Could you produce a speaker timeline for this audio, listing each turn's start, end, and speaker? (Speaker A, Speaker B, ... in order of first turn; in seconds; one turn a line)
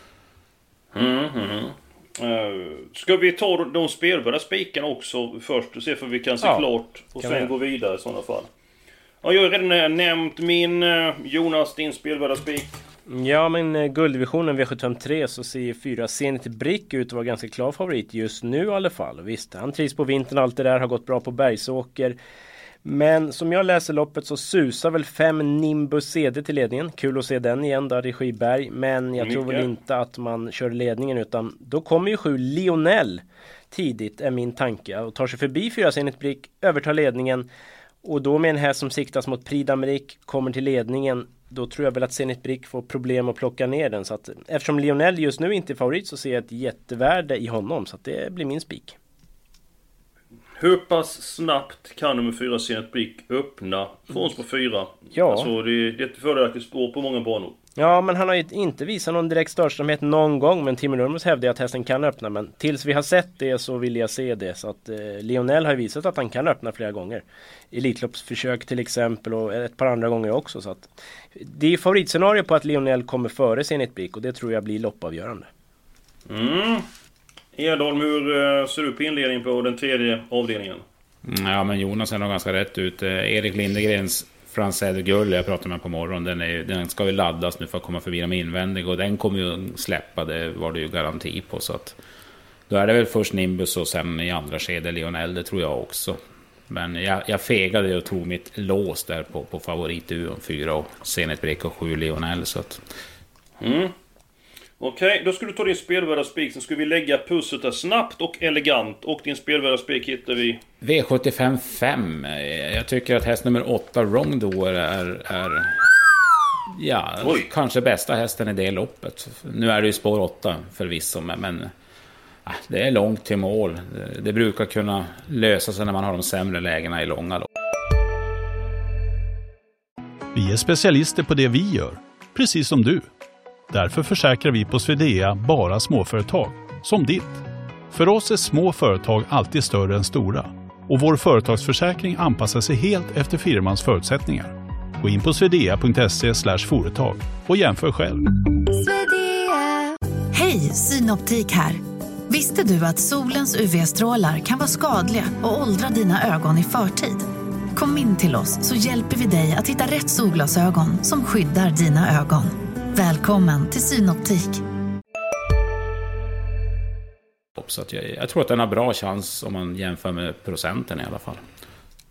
Speaker A: 0.9-8.5
Speaker B: 6.4-6.7
Speaker B: 7.2-7.5
Speaker A: 9.2-12.8
Speaker B: 13.1-22.2
Speaker B: 22.8-37.5
Speaker A: 29.2-29.7
Speaker B: 38.0-49.0
Speaker A: 50.6-57.6
Speaker B: 55.1-55.5
Speaker B: 57.8-75.5
Speaker A: 76.3-76.8
Speaker A: 77.5-80.8
Speaker C: 81.2-92.0
Speaker C: 92.7-96.2
Speaker C: 96.7-102.8
Speaker A: 103.6-103.9
Speaker A: 104.8-110.6
Speaker C: 110.8-115.8
Speaker C: 116.7-121.7
Speaker A: 117.2-117.5
Speaker C: 122.5-127.5
Speaker D: 130.3-133.1
Speaker D: 133.7-148.2
Speaker E: 150.3-164.6
Speaker C: 167.6-171.4